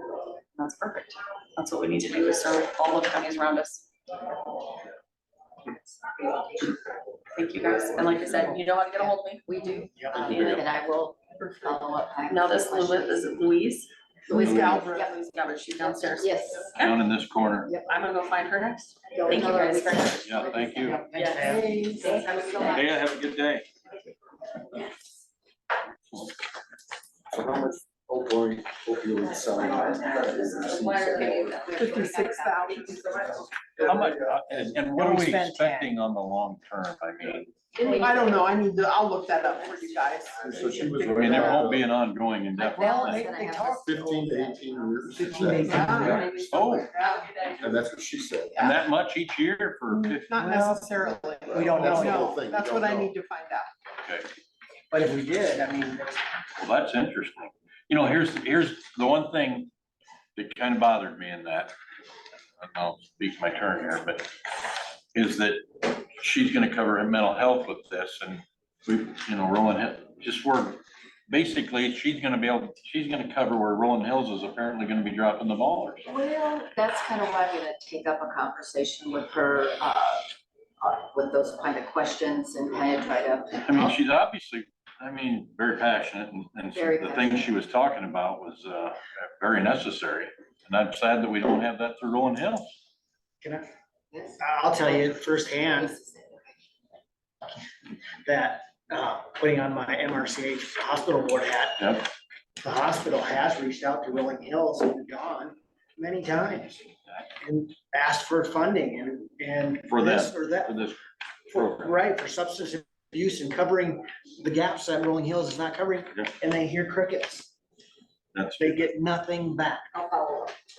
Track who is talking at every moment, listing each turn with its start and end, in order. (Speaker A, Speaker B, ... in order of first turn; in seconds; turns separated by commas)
Speaker A: 0.5-3.9, Speaker B: 5.7-6.8, Speaker A: 7.3-9.4, Speaker B: 7.8-8.3, Speaker B: 9.0-13.4, Speaker C: 9.9-10.4, Speaker D: 10.2-10.7, Speaker A: 12.3-17.0, Speaker E: 14.3-15.8, Speaker B: 14.3-15.2, Speaker B: 15.8-16.8, Speaker D: 16.8-17.7, Speaker A: 17.8-20.4, Speaker B: 19.1-23.0, Speaker D: 20.2-21.0, Speaker C: 20.9-21.8, Speaker A: 21.1-21.5, Speaker E: 21.4-22.8, Speaker D: 22.6-23.7, Speaker F: 27.3-31.4, Speaker B: 29.4-33.0, Speaker A: 29.8-33.4, Speaker E: 31.7-33.4, Speaker D: 33.8-37.5, Speaker C: 34.9-35.9, Speaker B: 37.8-38.5, Speaker E: 37.9-41.8, Speaker B: 39.5-40.1, Speaker F: 40.4-41.8, Speaker D: 41.0-43.3, Speaker C: 41.3-41.7, Speaker B: 42.6-46.3, Speaker C: 42.7-44.1, Speaker F: 43.9-46.2, Speaker E: 45.1-47.3, Speaker C: 45.2-46.1, Speaker A: 46.0-47.8, Speaker D: 46.2-46.9, Speaker F: 47.6-48.5, Speaker D: 48.6-50.5, Speaker E: 49.9-53.7, Speaker C: 50.4-50.9, Speaker F: 51.0-53.1, Speaker C: 51.5-52.3, Speaker D: 54.0-54.3, Speaker C: 54.9-56.1, Speaker D: 56.6-59.7, Speaker D: 60.4-61.7, Speaker D: 62.6-76.1, Speaker B: 76.1-84.0, Speaker D: 83.6-92.7, Speaker B: 86.7-87.6, Speaker C: 93.4-93.7, Speaker B: 94.1-96.6, Speaker C: 94.4-96.0, Speaker C: 98.2-102.1, Speaker C: 102.6-106.8, Speaker C: 107.4-110.8, Speaker D: 109.9-111.0, Speaker C: 111.5-117.5, Speaker D: 111.5-112.0, Speaker D: 118.3-118.8, Speaker C: 118.6-119.9, Speaker B: 119.9-120.6